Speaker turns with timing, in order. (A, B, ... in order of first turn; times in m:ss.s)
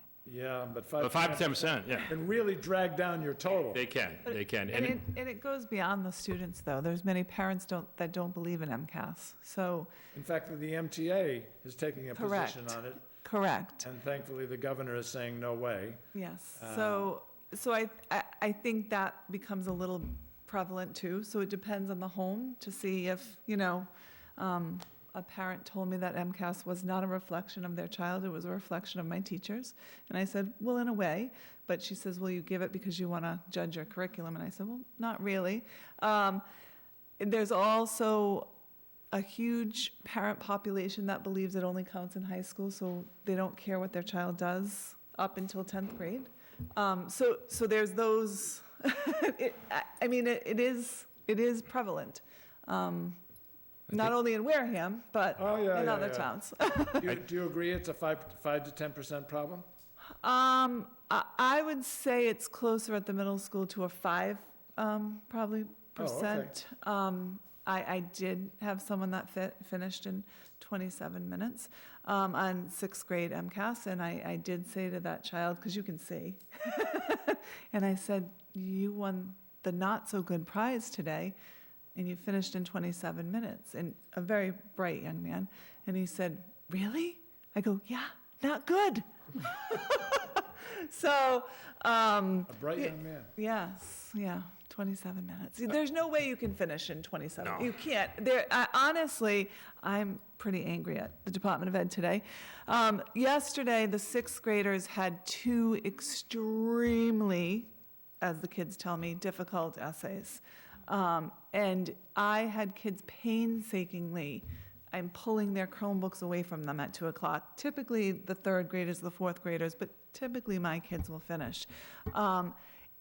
0:00.2-0:03.8 A
0:01.0-0:02.1 B
0:03.7-0:05.0 B
0:04.3-0:09.9 C
0:10.1-0:13.0 A
0:12.1-0:13.8 C
0:13.8-0:16.0 A
0:16.1-0:36.4 C
0:16.6-0:17.1 A
0:37.2-0:38.5 C
0:39.1-0:53.2 C
0:53.9-0:57.1 C
0:55.4-0:56.4 A
0:56.9-0:59.6 A
1:00.2-1:21.4 C
1:06.0-1:06.6 A
1:21.9-2:02.6 C
1:32.5-1:33.3 A
1:37.4-1:37.7 B